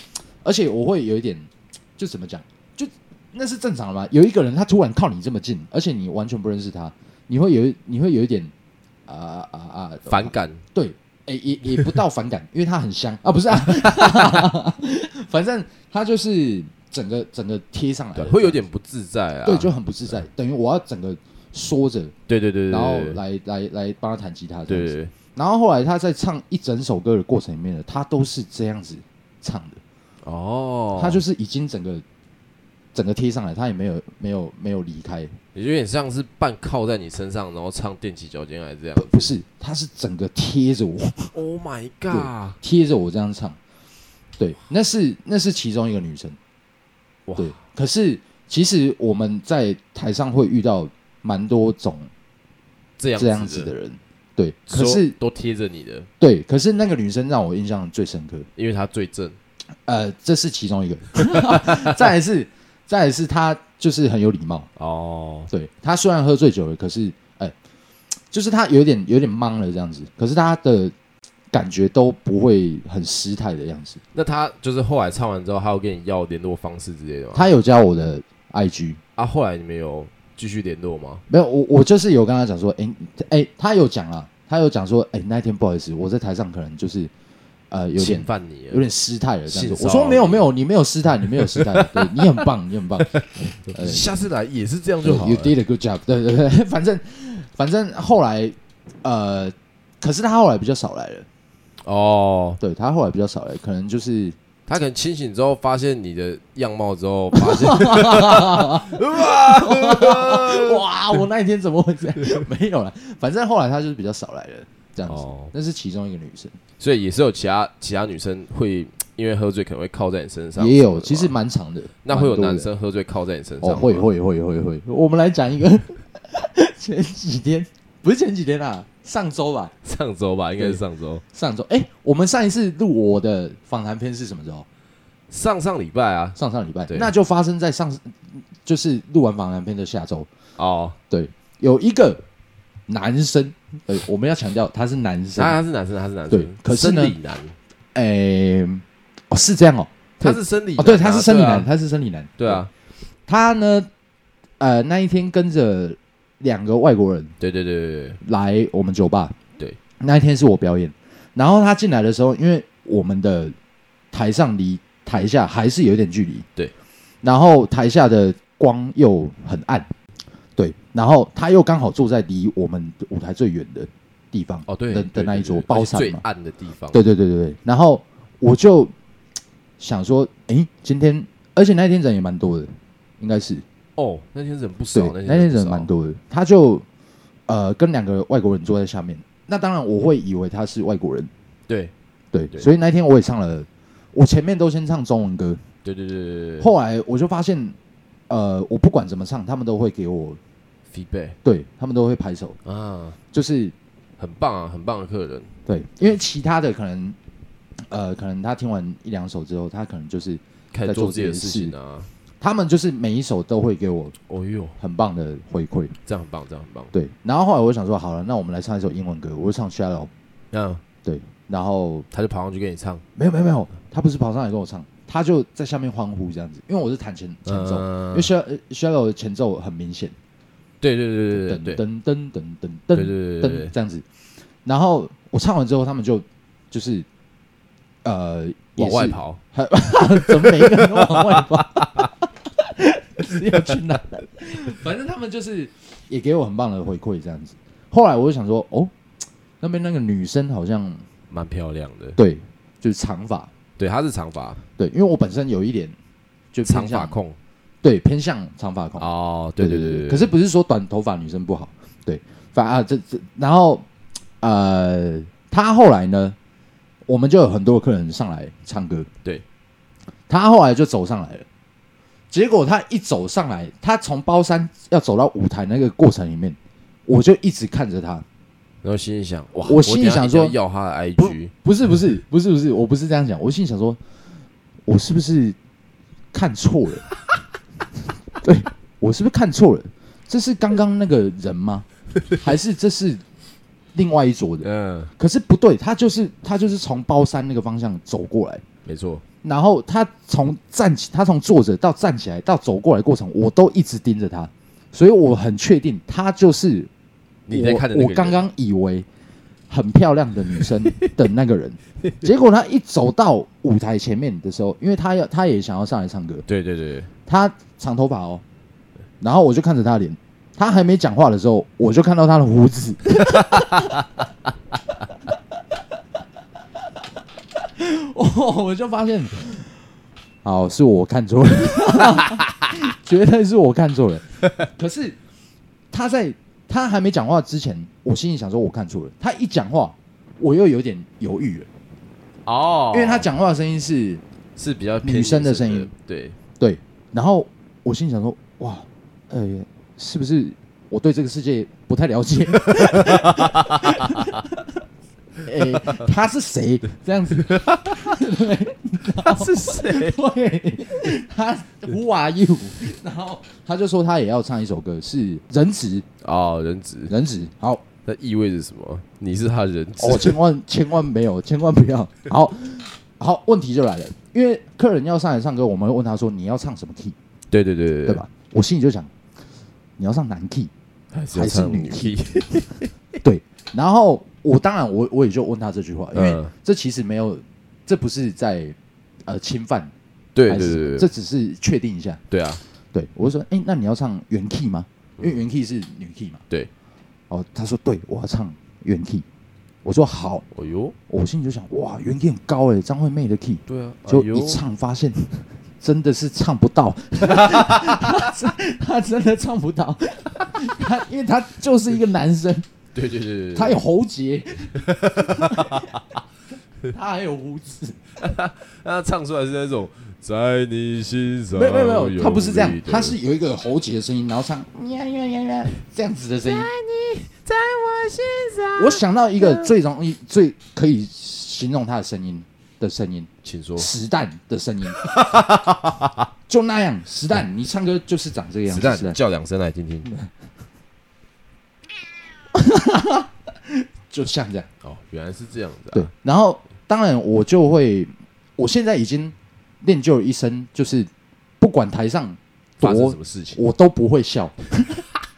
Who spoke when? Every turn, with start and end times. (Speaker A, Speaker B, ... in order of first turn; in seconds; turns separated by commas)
Speaker A: 0.4-8.5, Speaker A: 9.1-18.6, Speaker B: 10.1-10.6, Speaker B: 13.8-14.4, Speaker B: 18.1-20.2, Speaker A: 19.4-22.1, Speaker B: 22.3-23.2, Speaker A: 22.7-29.8, Speaker B: 24.7-25.1, Speaker B: 30.2-31.2, Speaker A: 30.9-32.0, Speaker A: 32.9-35.4, Speaker B: 35.5-39.3, Speaker A: 39.0-41.3, Speaker B: 41.3-42.6, Speaker A: 42.1-43.6, Speaker A: 44.4-46.4, Speaker B: 47.3-47.5, Speaker A: 47.4-52.1, Speaker B: 53.0-53.7, Speaker A: 53.1-55.2, Speaker B: 54.7-56.1, Speaker A: 56.2-58.5, Speaker B: 58.5-59.4, Speaker A: 59.9-64.7, Speaker B: 61.4-61.9, Speaker B: 64.8-65.5, Speaker A: 65.5-67.5, Speaker A: 68.3-70.9, Speaker A: 71.5-74.0, Speaker B: 74.1-77.5, Speaker A: 77.3-79.0, Speaker B: 79.2-81.2, Speaker A: 81.3-87.1, Speaker A: 87.7-94.2, Speaker B: 88.0-88.8, Speaker B: 89.5-90.5, Speaker B: 91.4-92.4, Speaker B: 93.1-95.5, Speaker A: 95.0-101.3, Speaker B: 101.8-102.6, Speaker A: 102.6-104.3, Speaker B: 104.7-110.8, Speaker A: 107.3-116.5, Speaker B: 115.0-115.5, Speaker B: 116.8-121.3, Speaker A: 120.5-122.7, Speaker B: 122.0-124.1, Speaker A: 123.6-129.7, Speaker B: 129.8-131.2, Speaker A: 130.6-134.7, Speaker B: 135.3-136.4, Speaker A: 136.3-140.3, Speaker B: 140.6-141.0, Speaker A: 141.1-142.2, Speaker A: 142.9-145.6, Speaker B: 145.3-147.5, Speaker A: 146.3-147.1, Speaker A: 147.9-152.7, Speaker B: 150.2-151.7, Speaker B: 152.4-152.7, Speaker A: 153.3-153.9, Speaker A: 154.6-157.3, Speaker B: 157.4-158.2, Speaker A: 158.2-159.3, Speaker A: 160.0-163.5, Speaker A: 164.1-166.4, Speaker A: 167.2-169.9, Speaker A: 170.6-176.2, Speaker B: 174.7-177.1, Speaker A: 176.9-178.9, Speaker A: 179.8-183.6, Speaker B: 183.9-185.9, Speaker A: 184.9-186.8, Speaker A: 187.5-191.3, Speaker B: 191.7-191.9, Speaker A: 192.3-195.6, Speaker B: 195.8-196.7, Speaker A: 196.6-197.8, Speaker A: 198.3-200.4, Speaker B: 200.9-201.4, Speaker A: 201.4-202.6, Speaker B: 202.7-203.2, Speaker A: 203.3-203.7, Speaker B: 204.2-205.5, Speaker A: 205.7-207.2, Speaker A: 207.9-211.7, Speaker B: 210.7-212.1, Speaker A: 212.4-214.1, Speaker B: 214.3-214.8, Speaker A: 214.8-215.9, Speaker B: 216.0-216.9, Speaker A: 216.9-220.1, Speaker B: 220.5-220.8, Speaker A: 221.0-222.1, Speaker B: 222.1-223.0, Speaker A: 223.2-230.1, Speaker B: 227.4-228.3, Speaker B: 230.8-231.8, Speaker A: 231.3-234.0, Speaker B: 232.9-233.7, Speaker A: 234.6-237.1, Speaker A: 238.0-248.9, Speaker B: 238.8-239.4, Speaker B: 240.4-242.1, Speaker A: 249.6-251.0, Speaker B: 251.3-252.2, Speaker A: 252.2-253.5, Speaker B: 253.8-254.6, Speaker A: 254.8-256.0, Speaker A: 256.5-257.2, Speaker B: 256.6-257.4, Speaker A: 257.8-263.8, Speaker B: 259.0-260.3, Speaker A: 264.4-266.4, Speaker A: 267.1-269.1, Speaker A: 270.3-271.4, Speaker A: 272.3-278.2, Speaker B: 278.8-281.5, Speaker A: 279.6-280.6, Speaker A: 281.2-284.0, Speaker A: 284.9-285.6, Speaker A: 286.3-287.0, Speaker A: 288.4-291.9, Speaker A: 292.4-293.2, Speaker A: 293.9-294.7, Speaker B: 294.6-295.1, Speaker A: 295.2-298.6, Speaker B: 298.8-299.2, Speaker A: 299.4-306.9, Speaker B: 307.5-308.4, Speaker A: 307.5-309.1, Speaker A: 309.7-316.4, Speaker B: 310.6-311.1, Speaker B: 316.5-317.1, Speaker A: 317.3-318.4, Speaker A: 319.2-323.7, Speaker A: 327.8-329.7, Speaker A: 330.4-335.2, Speaker A: 335.9-341.7, Speaker B: 342.4-343.3, Speaker A: 342.9-344.2, Speaker B: 344.6-346.4, Speaker A: 345.0-345.9, Speaker A: 346.6-354.5, Speaker B: 353.3-354.3, Speaker A: 355.4-366.1, Speaker B: 357.6-357.9, Speaker B: 359.2-360.2, Speaker B: 366.2-367.1, Speaker A: 367.1-367.8, Speaker B: 368.0-370.4, Speaker A: 370.0-377.1, Speaker B: 377.5-378.2, Speaker A: 378.1-379.1, Speaker A: 380.0-380.7, Speaker B: 381.1-382.9, Speaker A: 381.3-382.2, Speaker A: 383.2-389.9, Speaker B: 386.1-386.5, Speaker B: 390.3-391.1, Speaker A: 390.5-392.2, Speaker B: 392.3-392.6, Speaker A: 392.9-396.4, Speaker A: 397.3-399.2, Speaker A: 399.8-400.4, Speaker B: 400.5-400.9, Speaker A: 401.1-412.6, Speaker B: 403.7-404.6, Speaker B: 407.4-408.0, Speaker B: 412.9-413.8, Speaker A: 413.5-416.0, Speaker B: 415.0-415.9, Speaker A: 416.9-418.0, Speaker B: 418.2-423.2, Speaker A: 421.5-426.7, Speaker B: 426.4-429.7, Speaker A: 428.8-435.1, Speaker B: 433.4-433.9, Speaker B: 435.0-436.2, Speaker A: 436.5-439.2, Speaker B: 438.7-440.1, Speaker A: 442.5-443.3, Speaker A: 444.1-444.7, Speaker B: 444.8-446.1, Speaker A: 445.9-451.1, Speaker A: 451.6-455.0, Speaker B: 452.8-453.6